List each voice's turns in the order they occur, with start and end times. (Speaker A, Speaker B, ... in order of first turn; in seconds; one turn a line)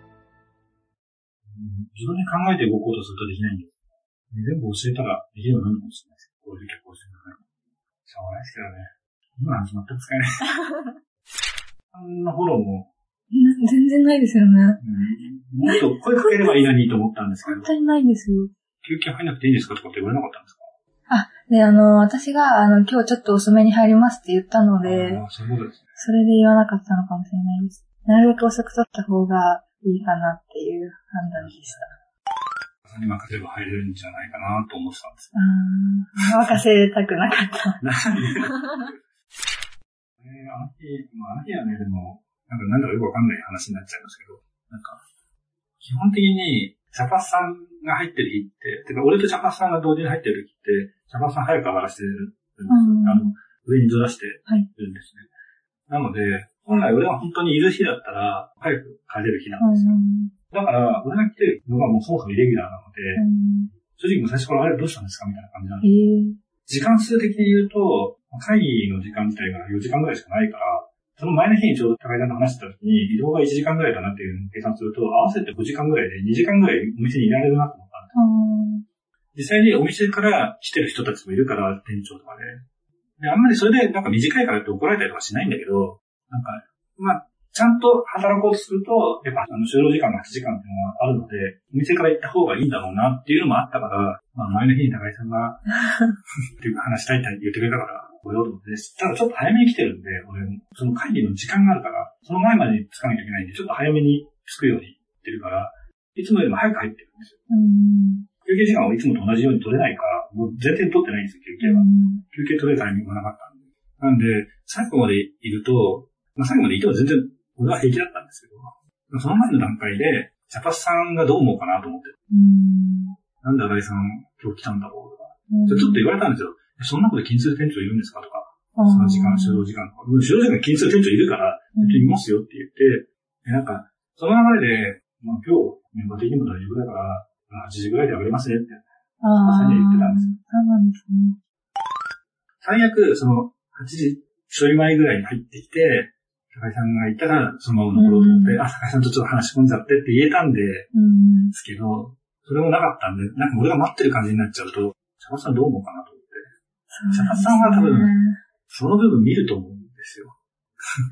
Speaker A: 1.5-3.7
Speaker A: 4.3-7.5
Speaker A: 8.0-10.5
Speaker B: 10.6-10.9
Speaker A: 11.9-12.9
Speaker B: 13.3-14.8
Speaker A: 14.8-17.7
Speaker B: 15.7-16.6
Speaker B: 17.4-18.5
Speaker A: 18.8-20.7
Speaker B: 21.1-25.2
Speaker A: 24.8-25.9
Speaker B: 26.0-31.9
Speaker A: 31.4-31.9
Speaker A: 32.9-35.3
Speaker B: 35.4-37.8
Speaker A: 36.2-36.6
Speaker A: 37.8-39.0
Speaker A: 40.2-45.0
Speaker A: 45.8-55.3
Speaker B: 52.7-53.3
Speaker A: 55.9-60.0
Speaker B: 59.6-60.3
Speaker A: 60.5-63.2
Speaker B: 63.2-63.7
Speaker A: 64.0-65.9
Speaker B: 65.8-66.4
Speaker A: 66.7-78.1
Speaker B: 78.1-78.8
Speaker A: 79.3-82.6
Speaker A: 83.2-95.6
Speaker B: 95.9-96.2
Speaker A: 96.6-107.4
Speaker B: 107.5-108.3
Speaker A: 108.4-122.2
Speaker B: 111.6-112.2
Speaker B: 122.3-123.2
Speaker A: 123.4-140.3
Speaker B: 125.5-126.0
Speaker B: 128.8-129.7
Speaker B: 131.8-132.2
Speaker B: 139.2-141.4
Speaker A: 142.6-150.9
Speaker B: 147.9-148.6
Speaker B: 150.9-151.6
Speaker A: 151.5-156.5
Speaker B: 156.9-158.4
Speaker A: 157.1-158.1
Speaker A: 158.7-160.4